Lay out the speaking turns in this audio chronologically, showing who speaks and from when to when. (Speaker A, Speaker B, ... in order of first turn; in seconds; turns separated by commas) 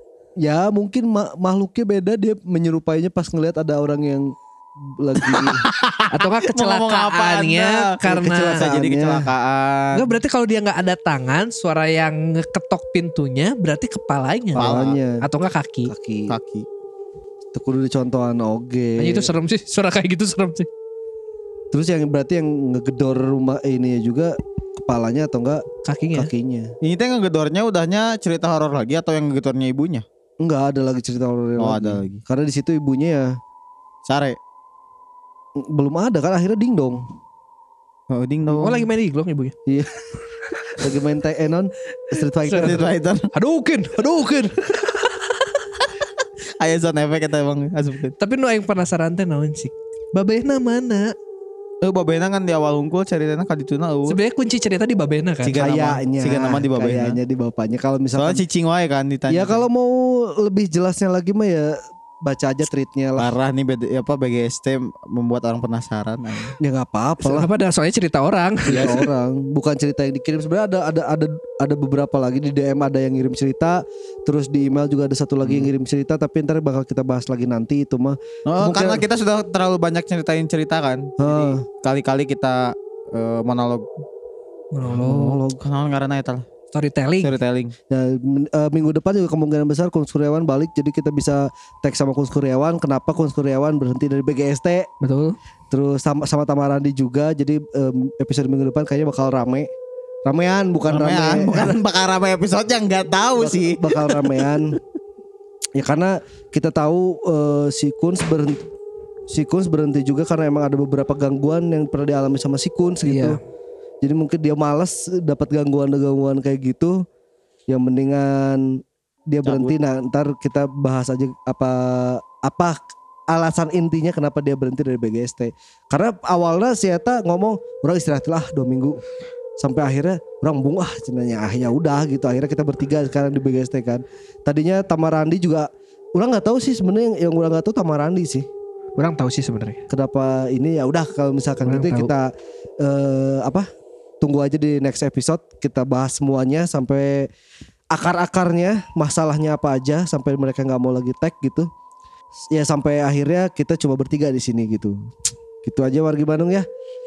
Speaker A: 0.4-5.6, Speaker B: 5.2-10.1, Speaker C: 6.1-8.6, Speaker A: 8.1-9.3, Speaker C: 9.9-15.9, Speaker A: 14.6-15.2, Speaker B: 14.6-15.0, Speaker A: 15.9-16.4, Speaker B: 16.3-16.7, Speaker A: 17.5-19.3, Speaker C: 19.0-20.7, Speaker A: 21.7-26.7, Speaker C: 25.8-26.3, Speaker B: 26.8-30.1, Speaker A: 30.4-33.4, Speaker B: 31.6-32.2, Speaker B: 34.1-34.4, Speaker A: 35.6-37.0, Speaker B: 38.1-38.9, Speaker C: 38.5-39.6, Speaker A: 39.7-40.0, Speaker A: 40.8-42.9, Speaker C: 42.4-45.5, Speaker B: 42.5-43.3, Speaker B: 46.6-48.1, Speaker C: 48.2-51.1, Speaker B: 51.8-54.2, Speaker C: 54.1-55.8, Speaker B: 55.4-57.2, Speaker A: 55.6-58.4, Speaker B: 58.2-59.7, Speaker A: 59.3-63.3, Speaker B: 63.2-66.6, Speaker A: 66.6-67.5, Speaker C: 67.2-69.1, Speaker A: 68.7-79.0, Speaker B: 75.4-75.7, Speaker B: 78.5-83.9, Speaker A: 81.2-81.7, Speaker C: 84.7-85.4, Speaker A: 84.9-85.6, Speaker B: 85.6-86.5, Speaker C: 86.7-87.3, Speaker B: 87.2-87.8, Speaker A: 87.9-94.9, Speaker C: 95.0-95.4, Speaker A: 95.7-99.7, Speaker A: 100.3-101.8, Speaker B: 100.9-104.6, Speaker A: 103.4-104.8, Speaker A: 105.8-108.7, Speaker A: 109.3-113.4, Speaker C: 113.0-113.4, Speaker A: 114.0-117.0, Speaker A: 117.7-129.0, Speaker B: 119.4-119.7, Speaker A: 129.6-138.5, Speaker C: 139.0-139.8, Speaker A: 139.9-143.7, Speaker C: 141.6-142.1, Speaker A: 144.2-147.3, Speaker A: 147.9-151.7, Speaker A: 152.5-155.1, Speaker A: 155.6-156.7